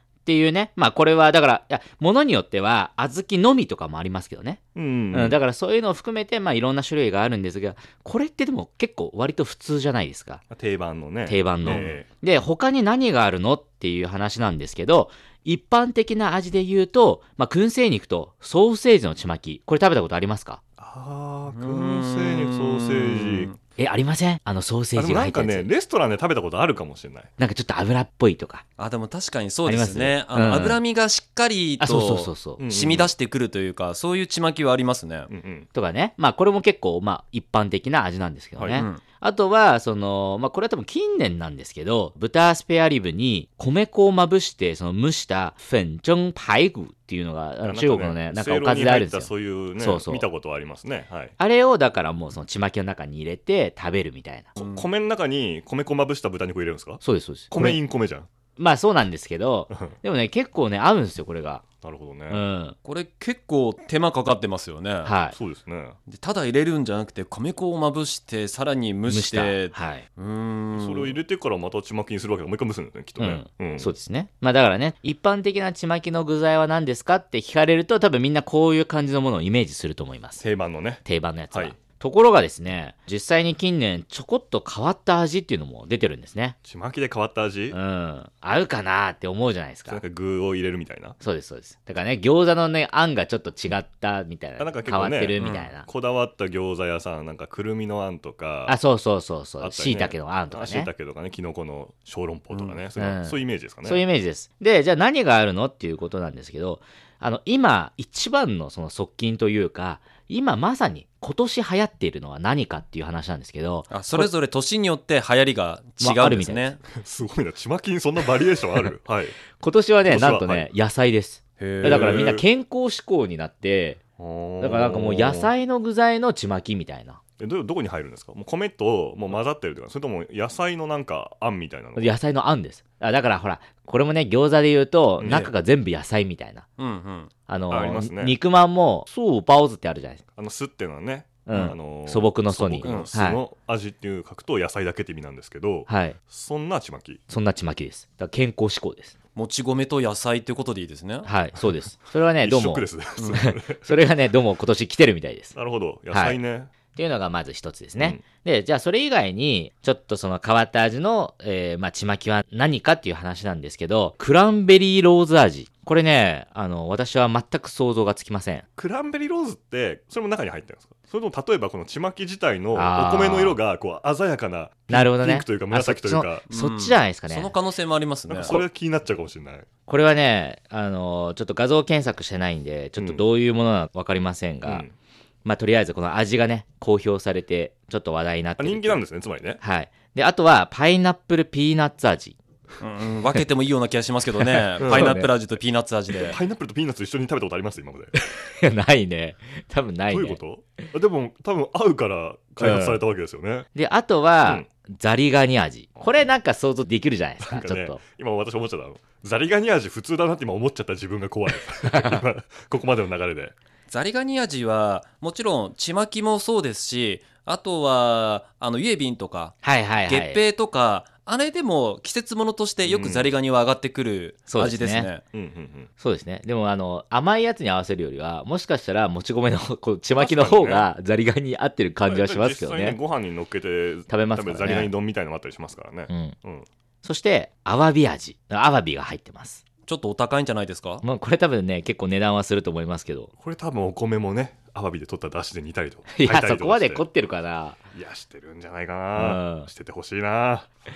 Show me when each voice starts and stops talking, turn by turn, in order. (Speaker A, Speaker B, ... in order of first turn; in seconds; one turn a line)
Speaker A: 0.2-10.4
Speaker B: 4.7-5.4
Speaker B: 10.5-12.1
Speaker A: 11.2-20.6
Speaker C: 11.7-11.9
Speaker B: 20.8-23.5
Speaker C: 21.5-23.6
Speaker A: 23.8-25.7
Speaker B: 24.9-27.3
Speaker A: 27.4-28.6
Speaker C: 28.8-35.3
Speaker A: 29.6-30.8
Speaker A: 31.8-32.6
Speaker B: 32.6-33.1
Speaker B: 35.3-35.7
Speaker A: 35.7-50.3
Speaker B: 38.5-38.9
Speaker C: 38.7-39.0
Speaker B: 47.6-51.3
Speaker A: 51.4-54.5
Speaker C: 54.5-54.9
Speaker B: 54.5-58.3
Speaker A: 57.0-57.8
Speaker A: 58.6-61.6
Speaker B: 61.8-62.4
Speaker A: 62.3-62.8
Speaker C: 62.8-65.1
Speaker A: 65.0-65.3
Speaker B: 65.3-66.0
Speaker C: 66.1-71.2
Speaker A: 69.1-70.0
Speaker B: 70.7-73.9
Speaker A: 73.2-80.4
Speaker B: 80.4-81.7
Speaker A: 81.0-86.5
Speaker B: 86.6-87.8
Speaker A: 87.7-90.0
Speaker B: 89.9-91.2
Speaker A: 91.2-95.9
Speaker B: 94.6-98.8
Speaker C: 95.4-95.7
Speaker A: 98.7-100.9
Speaker B: 99.6-104.0
Speaker C: 102.5-102.8
Speaker A: 103.0-114.3
Speaker C: 113.9-116.8
Speaker A: 116.0-116.7
Speaker B: 116.9-119.4
Speaker A: 119.6-124.0
Speaker B: 120.0-120.7
Speaker C: 121.6-122.3
Speaker B: 121.8-122.5
Speaker B: 124.2-125.5
Speaker A: 124.6-127.2
Speaker B: 127.4-132.1
Speaker A: 131.9-136.7
Speaker B: 135.2-135.5
Speaker C: 135.2-135.5
Speaker C: 136.8-137.3
Speaker A: 137.5-140.2
Speaker B: 137.7-138.4
Speaker B: 140.3-147.2
Speaker A: 141.4-143.4
Speaker C: 142.8-143.1
Speaker A: 145.9-146.2
Speaker A: 147.3-149.1
Speaker C: 149.3-151.3
Speaker A: 151.2-155.5
Speaker B: 152.3-154.0
Speaker B: 155.5-156.7
Speaker A: 156.1-156.4
Speaker A: 156.9-168.7
Speaker B: 168.8-176.4
Speaker A: 172.7-173.6
Speaker A: 174.9-177.5
Speaker C: 176.5-178.6
Speaker B: 178.3-179.7
Speaker A: 179.9-184.8
Speaker B: 183.0-183.2
Speaker B: 184.6-184.9
Speaker A: 185.4-189.0
Speaker B: 188.6-189.6
Speaker A: 189.6-192.3
Speaker C: 192.8-196.4
Speaker A: 194.6-195.3
Speaker B: 194.8-195.2
Speaker B: 196.2-198.1
Speaker A: 198.5-200.4
Speaker B: 200.1-203.7
Speaker A: 202.6-203.0
Speaker A: 203.7-208.0
Speaker B: 207.4-213.5
Speaker A: 211.8-212.2
Speaker C: 213.9-225.2
Speaker A: 219.6-220.4
Speaker B: 222.8-223.3
Speaker A: 224.5-225.1
Speaker B: 225.3-225.9
Speaker A: 226.0-233.0
Speaker B: 230.2-230.9
Speaker B: 232.1-236.7
Speaker A: 234.1-234.9
Speaker A: 236.1-236.3
Speaker A: 237.0-239.6
Speaker C: 239.9-241.0
Speaker A: 241.0-243.3
Speaker B: 243.4-247.0
Speaker A: 246.1-247.8
Speaker B: 247.9-250.7
Speaker A: 249.1-249.7